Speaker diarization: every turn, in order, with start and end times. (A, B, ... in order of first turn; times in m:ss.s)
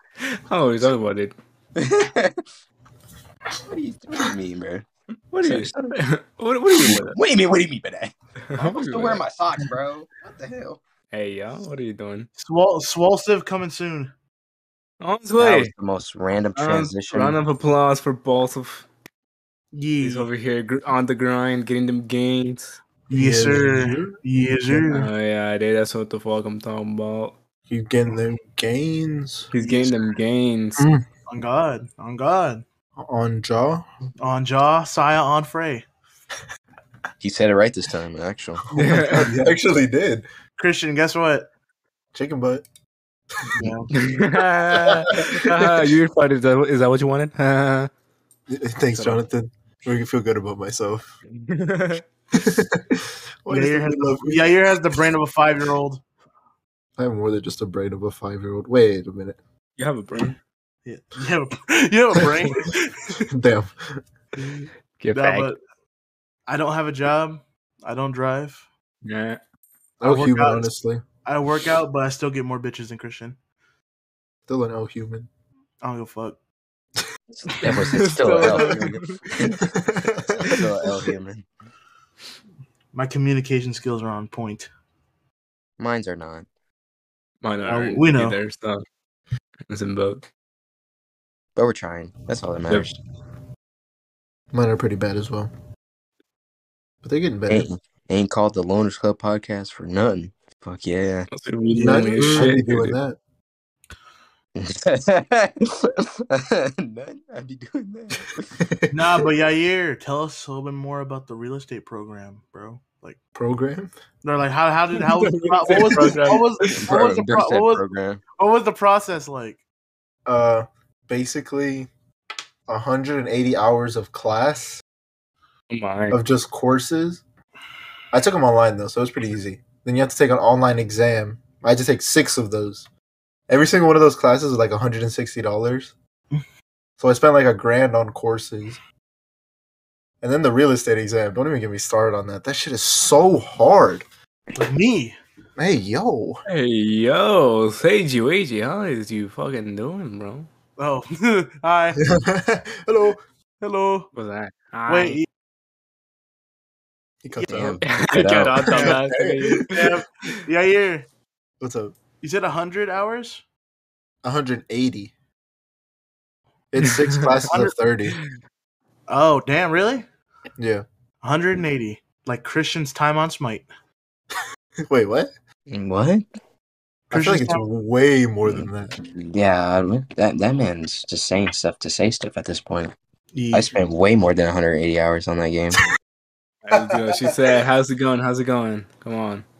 0:00.2-0:01.3 A
0:01.8-0:02.4 B
0:03.6-0:04.8 B
0:05.3-0:07.2 A
0:05.4-0:06.0 B
0:06.7-0:10.8 B
0:08.5-0:09.2 A
0:11.1-0:12.3 A
0:12.4-0:14.1 C
0:15.0-0:15.7 A
0:15.4-0:17.4 B
0:16.6-0:18.9 A
0:19.7-0:20.3 C
0:20.0-0:22.8 A
0:23.1-0:24.2 D
0:23.1-0:25.1 C
0:24.8-0:27.4 A
0:27.7-0:29.5 D
0:29.5-0:30.8 A
0:30.8-0:31.0 D
0:31.3-0:32.6 C
0:33.0-0:33.8 D
0:34.2-0:35.8 C
0:37.2-0:38.6 B
0:38.7-0:40.2 D
0:38.7-0:39.4 A
0:40.6-0:41.5 C
0:42.1-0:42.6 D
0:43.4-0:43.7 D
0:43.6-0:43.9 C
0:43.9-0:47.9 A
0:44.7-0:45.9 D
0:48.5-0:51.2 D
0:48.9-0:49.2 A
0:51.3-0:52.0 A
0:52.3-0:54.6 D
0:53.5-0:56.0 C
0:57.0-0:59.4 D
0:59.8-1:00.4 A
1:00.8-1:03.2 C
1:03.2-1:04.0 D
1:05.0-1:05.5 A
1:05.1-1:05.6 C
1:06.5-1:08.6 C
1:09.0-1:09.4 A
1:10.0-1:11.0 D
1:10.0-1:10.7 C
1:11.2-1:13.4 C
1:14.5-1:15.3 D
1:15.8-1:16.4 C
1:17.3-1:21.5 B
1:17.6-1:19.2 A
1:18.2-1:18.8 C
1:19.6-1:20.6 D
1:22.9-1:24.7 C
1:25.8-1:26.4 B
1:27.4-1:28.8 A
1:27.7-1:28.4 C
1:29.7-1:30.2 A
1:31.6-1:32.9 B
1:34.5-1:35.5 D
1:37.0-1:37.7 D
1:37.5-1:41.3 B
1:41.3-1:43.0 A
1:41.7-1:43.2 D
1:42.2-1:42.4 B
1:44.6-1:48.5 B
1:48.6-1:49.3 D
1:48.9-1:53.2 C
1:53.3-1:53.9 D
1:54.2-1:57.8 C
1:55.0-1:56.8 A
1:55.7-1:56.3 D
1:56.8-1:58.2 B
1:58.4-1:59.6 C
2:00.3-2:01.9 D
2:02.7-2:04.8 D
2:05.7-2:06.2 A
2:06.1-2:07.2 D
2:08.1-2:12.8 D
2:13.5-2:15.9 D
2:17.0-2:18.8 D
2:20.2-2:24.0 D
2:24.5-2:25.2 C
2:25.6-2:26.4 D
2:26.4-2:30.5 A
2:30.8-2:32.0 C
2:32.0-2:33.2 D
2:33.6-2:34.1 C
2:34.1-2:35.2 A
2:34.9-2:35.2 C
2:37.2-2:37.8 D
2:37.5-2:39.0 B
2:37.8-2:39.9 A
2:38.6-2:39.8 D
2:39.7-2:41.1 C
2:41.6-2:41.9 D
2:42.2-2:43.4 C
2:44.2-2:45.1 D
2:46.7-2:48.2 D
2:46.8-2:47.4 A
2:47.5-2:47.7 C
2:49.1-2:50.0 C
2:50.6-2:50.8 D
2:51.2-2:53.7 C
2:54.8-2:55.3 D
2:55.7-2:56.2 B
2:57.1-2:57.6 C
2:57.1-2:59.0 D
2:58.5-3:02.9 B
3:03.3-3:03.8 C
3:03.5-3:05.8 B
3:06.6-3:09.4 A
3:06.7-3:07.4 D